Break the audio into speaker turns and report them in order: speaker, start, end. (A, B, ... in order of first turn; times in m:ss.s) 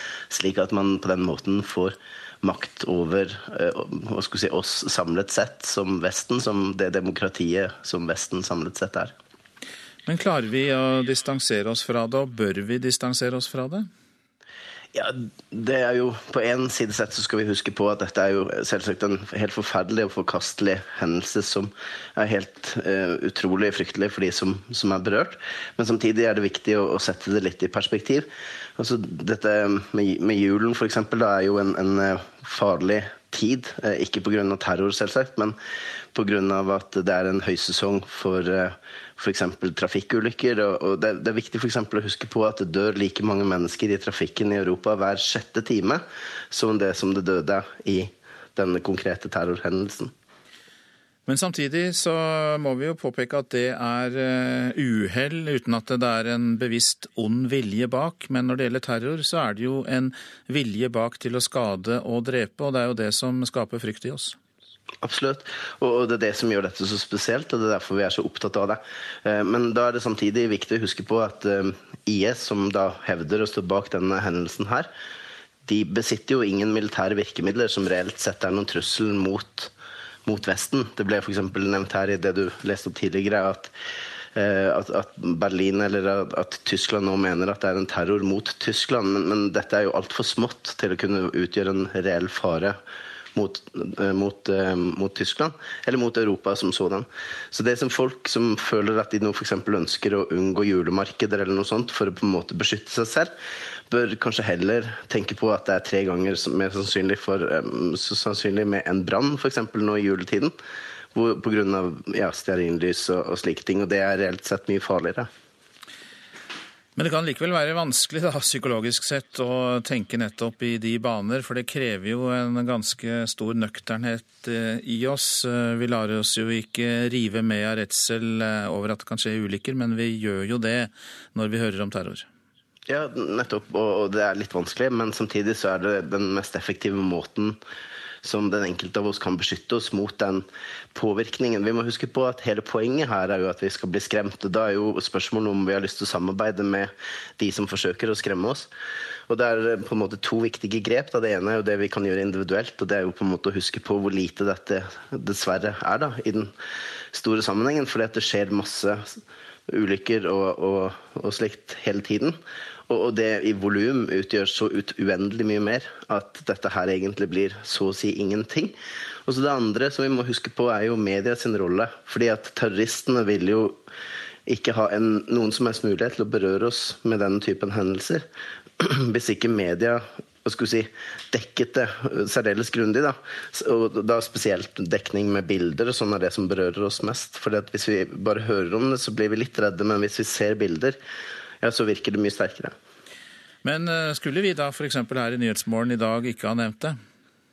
0:00.3-0:09.1 A
0:10.0-0:13.9 B
0:14.9-0:28.2 A
0:28.8-0:35.5 A
0:36.1-0:50.1 A
0:51.3-1:04.4 B
1:05.0-1:14.9 A
1:15.7-1:19.7 A
1:20.2-1:23.7 A
1:24.4-1:32.8 A
1:33.4-1:43.3 A
1:43.9-1:50.5 A
1:51.1-1:55.3 A
1:57.0-2:12.2 B
2:12.9-2:17.6 A
2:18.2-2:28.7 A
2:29.3-2:36.5 A
2:37.1-2:42.4 A
2:42.9-2:48.7 A
2:49.3-2:53.8 A
2:54.5-2:58.2 A
2:58.8-3:11.0 A
3:11.6-3:12.7 A
3:13.6-3:17.0 B